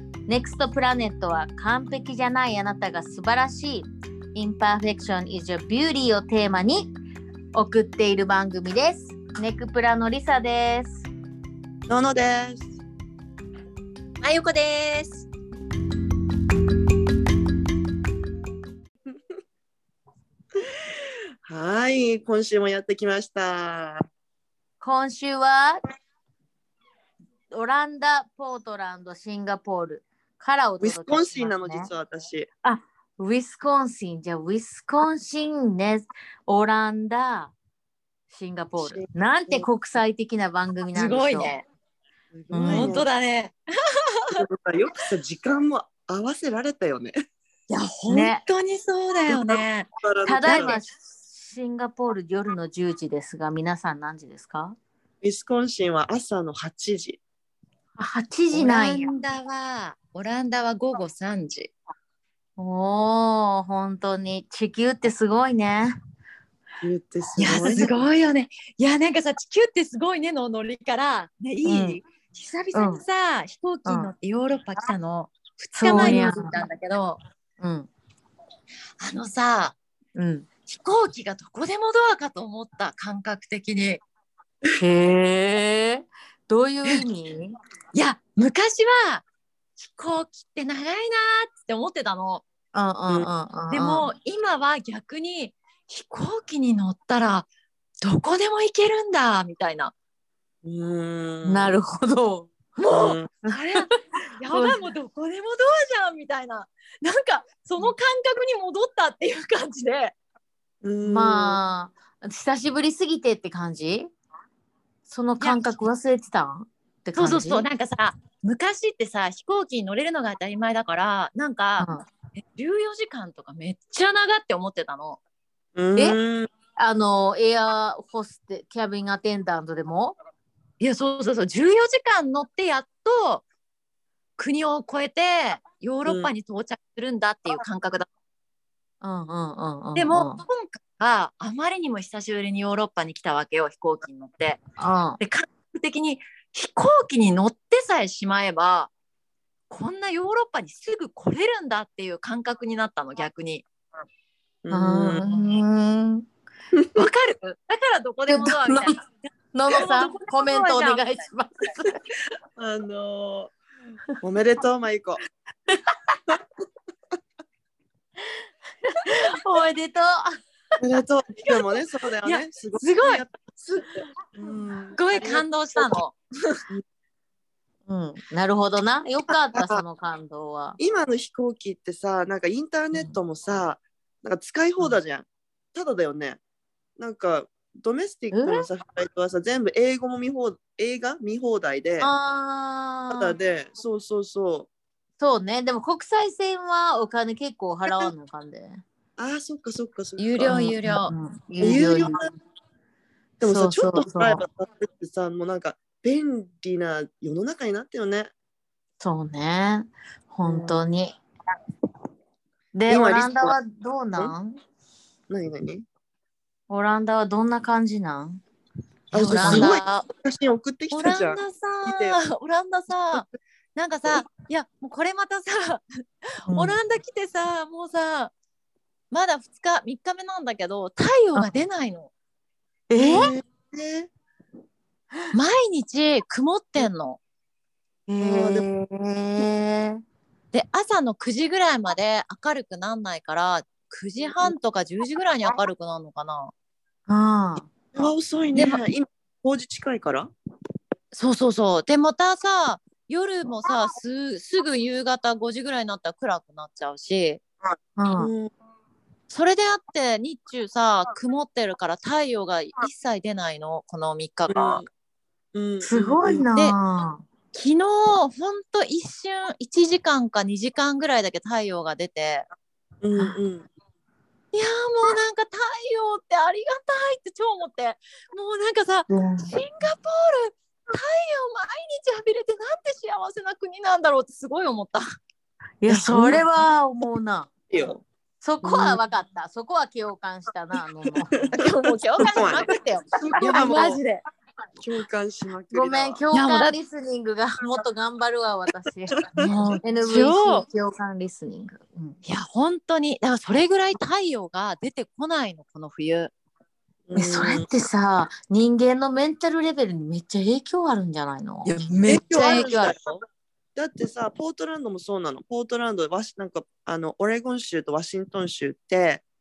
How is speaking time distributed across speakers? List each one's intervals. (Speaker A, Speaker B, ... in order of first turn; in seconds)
Speaker A: 0.3-6.9, 7.5-11.1, 24.8-25.8, 27.5-31.9, 32.6-37.5, 38.3-41.5, 42.5-43.0, 48.1-48.4, 50.3-54.8, 58.0-59.1, 62.6-66.0, 71.7-72.0, 72.7-73.0, 73.9-74.1, 75.8-76.5, 77.6-77.9, 80.2-80.5, 84.8-87.5, 92.8-94.1, 101.5-102.5, 104.5-104.8, 111.0-114.1, 115.1-117.7, 126.8-130.2, 139.0-140.4, 144.8-145.2, 154.7-156.3, 158.3-159.0, 159.5-161.9, 169.0-170.4, 177.9-180.8, 188.3-188.7, 192.0-193.3, 195.2-198.8, 200.4-202.3, 203.4-204.4, 209.0-211.2, 212.7-214.6, 216.7-218.4, 219.2-219.8, 226.5-226.8, 232.9-233.3, 238.1-240.0, 247.1-247.7, 258.0-258.3, 265.8-267.2, 279.1-279.5, 285.8-287.5, 288.4-291.6, 295.7-299.2, 299.8-302.2, 307.1-312.9
Speaker B: 11.9-12.7, 21.5-24.0, 30.8-32.5, 38.8-39.7, 42.3-43.1, 44.4-47.1, 49.3-50.8, 55.2-57.2, 66.8-67.9, 75.9-76.3, 100.6-101.8, 102.9-103.3, 110.8-111.6, 125.8-126.5, 154.6-155.2, 156.7-157.1, 162.6-163.5, 164.2-165.2, 170.8-175.8, 179.5-179.8, 180.8-186.4, 187.0-192.1, 193.1-194.7, 197.9-198.1, 199.2-200.7, 201.6-202.3, 203.4-208.3, 210.4-210.8, 212.9-213.6, 215.3-215.9, 219.1-222.2, 233.0-234.1, 238.2-238.7, 247.9-250.3, 258.2-258.5, 264.5-264.9, 265.5-266.4, 273.0-273.7, 285.9-286.4, 287.7-288.0, 288.6-289.0, 292.2-294.0, 294.8-296.2, 307.1-307.7, 312.1-313.2, 313.8-319.2
Speaker C: 14.2-15.3, 40.9-41.7, 42.6-43.5, 44.1-44.4, 47.7-49.9, 50.4-50.8, 58.5-61.7, 67.4-77.2, 79.0-79.8, 80.7-84.0, 87.9-89.2, 89.8-92.4, 93.7-97.5, 98.0-99.9, 102.8-110.2, 117.2-125.2, 130.8-133.4, 134.4-138.1, 140.0-144.6, 145.2-148.9, 149.7-153.7, 155.2-155.5, 157.0-159.1, 159.7-161.3, 171.4-173.3, 174.9-176.6, 200.2-201.1, 219.2-220.0, 220.9-225.8, 226.5-228.3, 229.1-232.1, 235.3-237.2, 240.5-246.5, 251.1-257.4, 259.3-264.8, 267.5-272.5, 274.5-285.0, 291.6-294.2, 296.3-296.8, 299.4-300.7, 302.2-306.3, 311.6-312.7